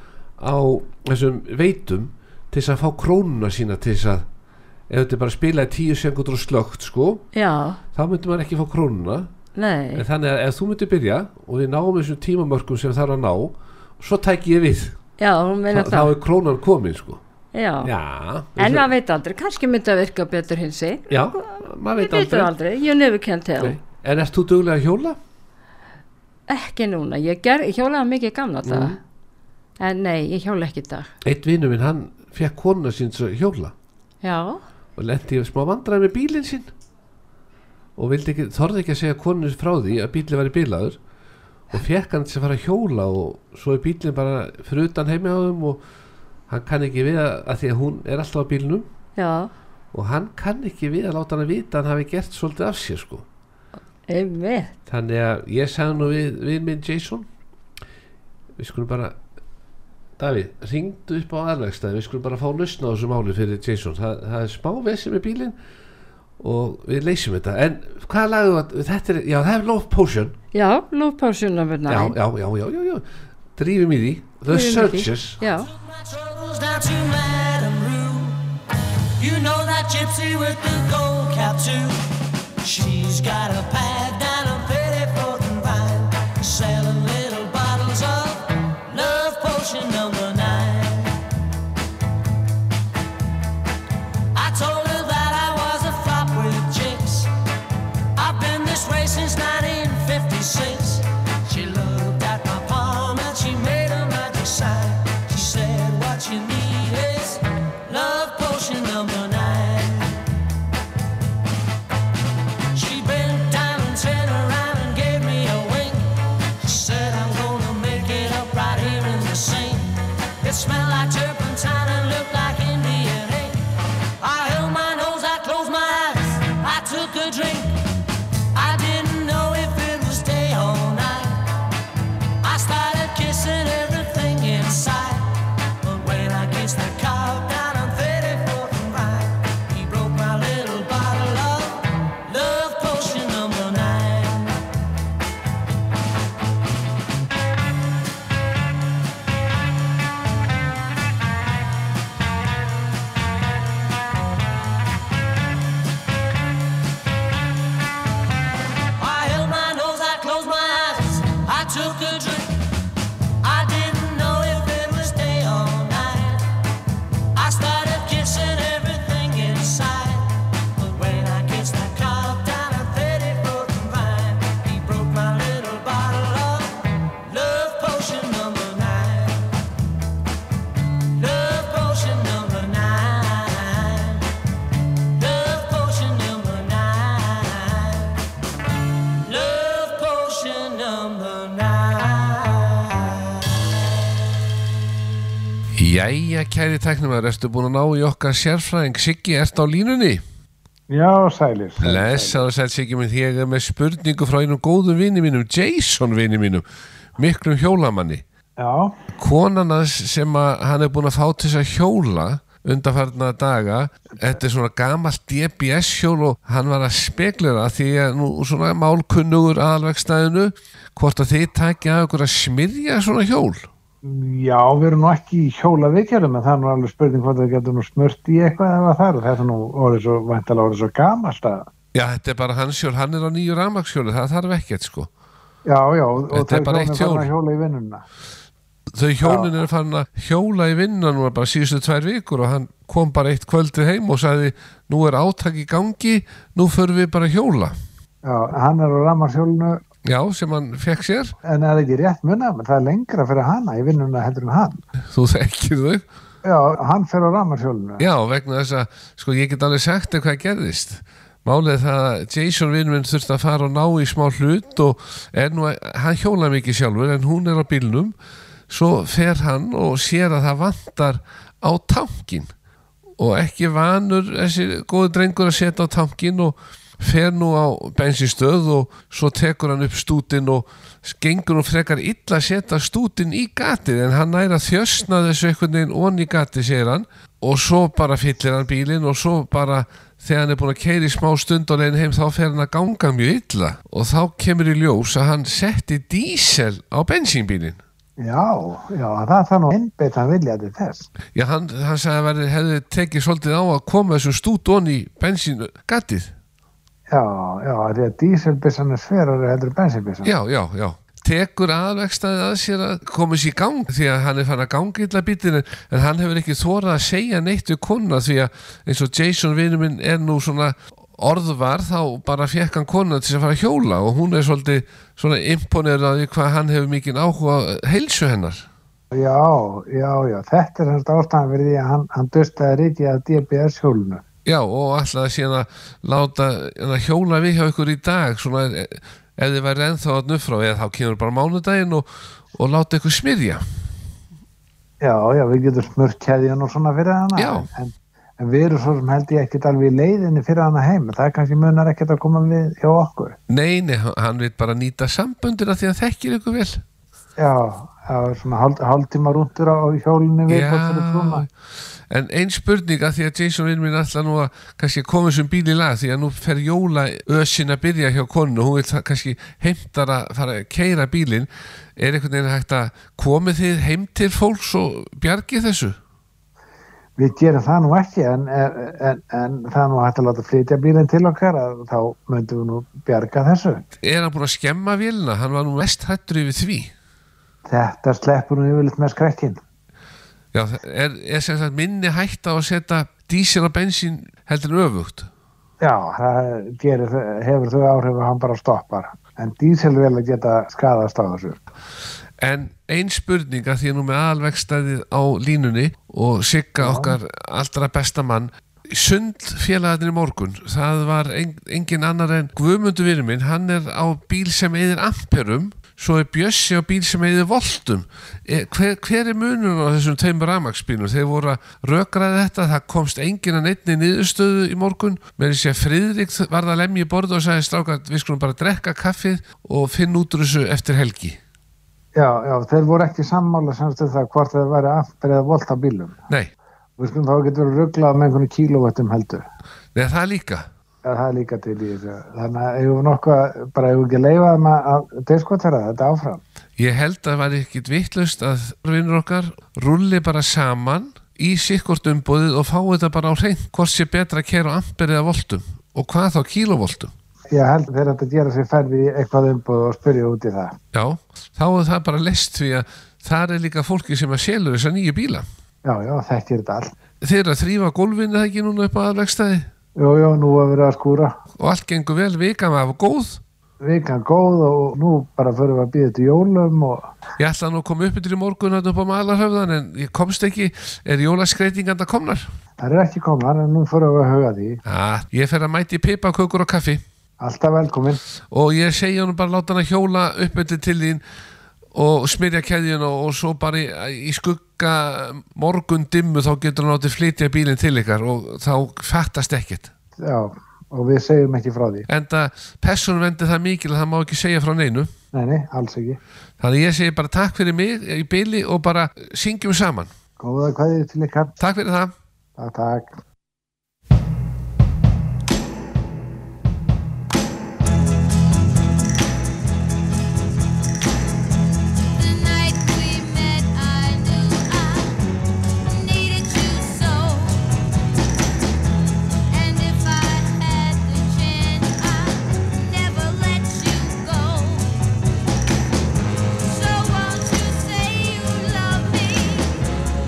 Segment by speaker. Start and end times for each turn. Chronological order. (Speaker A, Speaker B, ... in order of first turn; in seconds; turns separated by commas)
Speaker A: 0.4-4.3, Speaker A: 4.9-7.2, Speaker B: 7.3-7.8, Speaker A: 7.9-9.3, Speaker B: 9.6-10.1, Speaker A: 9.9-15.0, Speaker B: 15.2-16.1, Speaker A: 15.7-17.2, Speaker B: 17.5-17.9, Speaker A: 17.8-18.9, Speaker B: 18.6-23.8, Speaker A: 21.1-22.5, Speaker A: 23.6-25.2, Speaker B: 26.5-29.0, Speaker A: 28.6-29.0, Speaker B: 29.8-31.1, Speaker A: 31.2-33.7, Speaker B: 34.2-34.6, Speaker A: 35.0-36.7, Speaker A: 38.0-41.0, Speaker A: 41.7-45.8, Speaker A: 46.5-48.9, Speaker B: 49.1-49.5, Speaker A: 49.9-53.2, Speaker B: 54.1-54.7, Speaker A: 54.9-57.3, Speaker A: 58.6-59.2, Speaker A: 60.2-65.6, Speaker A: 66.4-70.3, Speaker B: 70.5-72.2, Speaker A: 71.9-73.0, Speaker A: 73.5-75.4, Speaker B: 74.5-75.7, Speaker C: 75.6-78.4, Speaker C: 79.2-82.1, Speaker C: 82.6-91.2, Speaker C: 94.3-97.3, Speaker C: 98.1-110.3, Speaker C: 112.7-123.7, Speaker C: 124.2-127.8, Speaker C: 128.5-131.5, Speaker C: 132.4-144.6, Speaker C: 159.0-162.6, Speaker C: 163.4-166.5, Speaker C: 167.3-179.6, Speaker C: 181.2-184.3, Speaker C: 185.2-188.2, Speaker C: 189.2-193.3, Speaker A: 195.7-200.2, Speaker D: 200.9-202.4, Speaker A: 201.8-206.6, Speaker A: 207.2-208.2, Speaker D: 208.6-209.0, Speaker A: 209.2-223.7, Speaker D: 224.0-231.7, Speaker A: 231.9-235.1, Speaker D: 235.7-238.0, Speaker A: 236.3-237.3, Speaker A: 238.9-247.8, Speaker D: 239.2-239.5, Speaker D: 248.2-249.8, Speaker A: 250.0-251.3, Speaker D: 251.4-254.8, Speaker A: 255.1-256.0, Speaker D: 256.4-258.0, Speaker A: 258.0-268.1, Speaker A: 268.7-272.5, Speaker A: 273.2-297.8, Speaker D: 298.2-301.1, Speaker A: 301.3-306.3, Speaker D: 307.1-310.3, Speaker A: 310.2-328.7, Speaker D: 329.1-334.2, Speaker A: 334.4-343.6, Speaker D: 345.0-353.4, Speaker A: 347.4-347.7, Speaker A: 353.5-356.8, Speaker D: 357.4-361.4, Speaker A: 360.5-361.5, Speaker A: 362.1-376.0, Speaker D: 377.2-383.8, Speaker A: 384.0-386.9, Speaker D: 387.6-389.6, Speaker A: 390.5-395.3, Speaker D: 395.8-401.6, Speaker A: 402.4-431.4, Speaker D: 406.8-407.1, Speaker D: 432.1-436.2, Speaker D: 437.0-439.4, Speaker A: 439.9-440.7, Speaker D: 441.0-446.4, Speaker A: 446.8-457.1, Speaker D: 457.5-460.8, Speaker A: 460.9-465.4, Speaker D: 465.8-466.9, Speaker A: 467.2-469.7, Speaker D: 470.0-471.3, Speaker A: 471.6-473.4, Speaker D: 473.8-477.1, Speaker A: 477.4-482.5, Speaker D: 482.8-484.8, Speaker A: 484.9-487.0, Speaker D: 487.4-488.2, Speaker A: 488.5-491.2, Speaker A: 491.9-499.9, Speaker D: 500.2-502.1, Speaker A: 502.1-505.1, Speaker D: 505.3-506.2, Speaker A: 506.6-510.1, Speaker D: 510.4-511.5, Speaker A: 511.6-512.1, Speaker D: 512.6-513.2, Speaker E: 522.1-525.1, Speaker E: 525.9-527.7, Speaker E: 529.5-534.9, Speaker E: 536.6-539.9